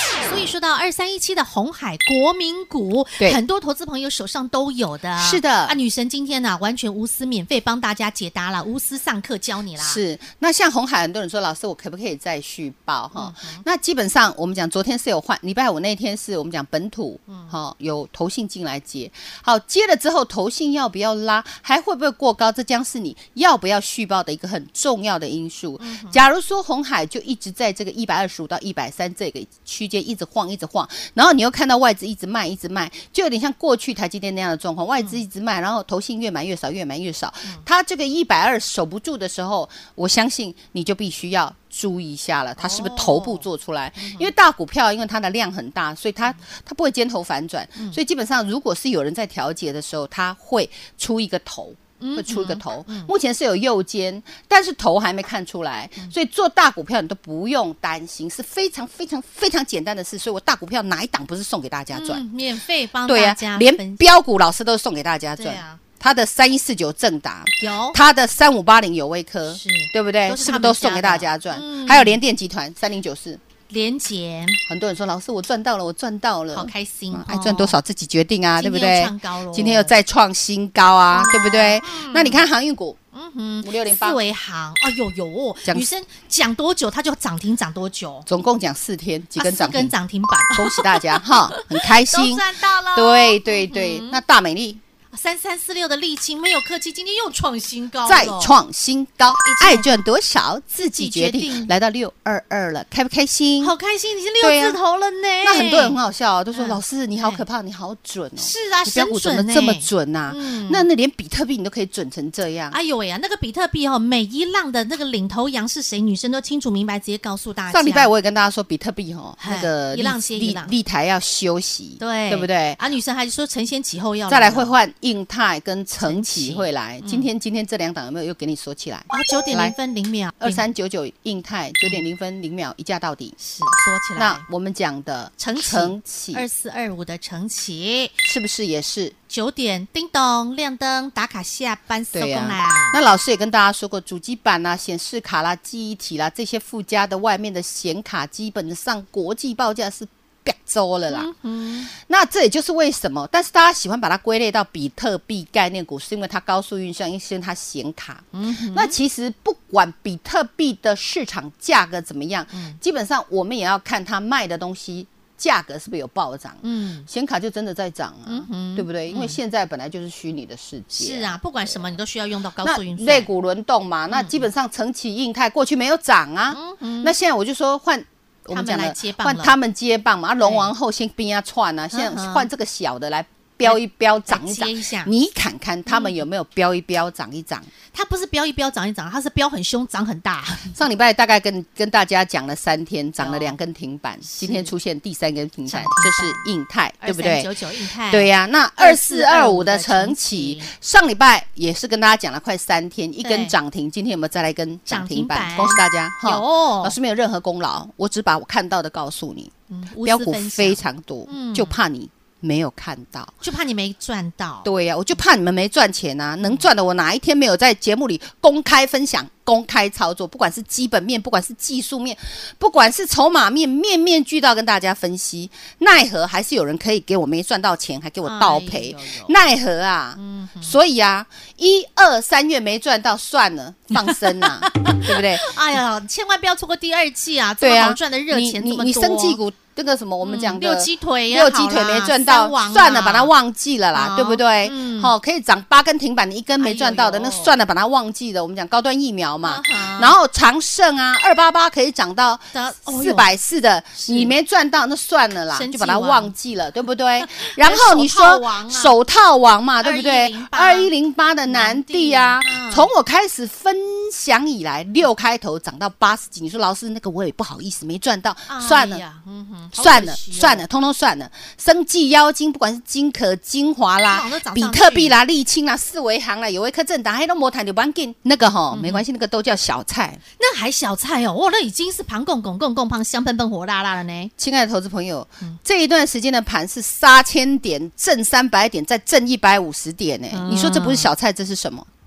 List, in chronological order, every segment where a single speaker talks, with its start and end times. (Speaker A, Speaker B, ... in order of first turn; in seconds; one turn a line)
Speaker A: 0.2-10.0
Speaker B: 5.2-5.8
Speaker B: 9.8-62.2
Speaker A: 13.1-13.6
Speaker A: 17.3-17.5
Speaker A: 25.8-26.2
Speaker A: 42.6-43.4
Speaker A: 44.0-44.3
Speaker A: 52.0-53.1
Speaker A: 61.9-64.0
Speaker B: 63.0-73.4
Speaker A: 65.4-65.8
Speaker A: 67.6-68.0
Speaker A: 69.5-72.2
Speaker A: 73.7-74.6
Speaker B: 74.7-83.0
Speaker A: 76.5-77.8
Speaker A: 78.6-79.9
Speaker A: 81.1-82.4
Speaker A: 83.1-88.3
Speaker B: 83.6-84.2
Speaker B: 88.2-89.9
Speaker A: 89.4-94.2
Speaker B: 90.5-94.8
Speaker A: 95.1-98.5
Speaker B: 98.0-103.7
Speaker A: 99.4-100.0
Speaker A: 100.9-101.7
Speaker A: 103.6-106.0
Speaker B: 104.4-104.8
Speaker B: 105.4-112.8
Speaker A: 106.5-107.4
Speaker A: 108.4-110.9
Speaker A: 112.7-118.1
Speaker B: 117.7-122.8
Speaker A: 119.4-120.7
Speaker A: 122.0-124.7
Speaker B: 124.3-129.8
Speaker A: 126.0-127.3
Speaker A: 129.1-130.6
Speaker B: 130.4-133.4
Speaker A: 133.4-134.4
Speaker B: 134.2-136.4
Speaker A: 135.4-138.1
Speaker B: 138.2-139.1
Speaker A: 139.3-143.0
Speaker B: 142.1-151.3
Speaker A: 151.1-151.9
Speaker B: 151.9-171.8
Speaker A: 158.3-158.9
Speaker A: 162.5-162.8
Speaker A: 166.6-167.1
Speaker A: 168.2-169.4
Speaker A: 170.9-173.3
Speaker B: 172.6-187.7
Speaker A: 174.1-174.4
Speaker A: 176.5-177.1
Speaker A: 178.5-179.5
Speaker A: 180.4-180.7
Speaker A: 181.9-182.5
Speaker A: 183.6-185.1
Speaker A: 185.9-186.2
Speaker A: 187.9-190.8
Speaker B: 190.7-197.5
Speaker A: 193.2-193.6
Speaker A: 194.2-194.7
Speaker A: 195.7-196.4
Speaker A: 197.0-200.7
Speaker B: 198.1-213.3
Speaker A: 203.2-203.5
Speaker A: 204.9-206.9
Speaker A: 209.7-211.8
Speaker A: 213.4-214.7
Speaker B: 214.6-235.5
Speaker A: 228.2-229.3
Speaker A: 230.2-230.8
Speaker A: 233.9-239.4
Speaker B: 237.6-269.0
Speaker A: 240.2-243.3
Speaker A: 243.9-245.1
Speaker A: 246.6-247.5
Speaker A: 249.4-250.2
Speaker A: 252.5-253.3
Speaker A: 253.9-254.3
Speaker A: 255.5-256.3
Speaker A: 257.2-258.9
Speaker A: 259.8-260.9
Speaker A: 261.5-262.9
Speaker A: 268.5-270.6
Speaker B: 269.7-280.2
Speaker A: 274.1-275.1
Speaker A: 278.7-279.0
Speaker A: 280.4-284.3
Speaker B: 284.4-291.9
Speaker A: 290.3-291.1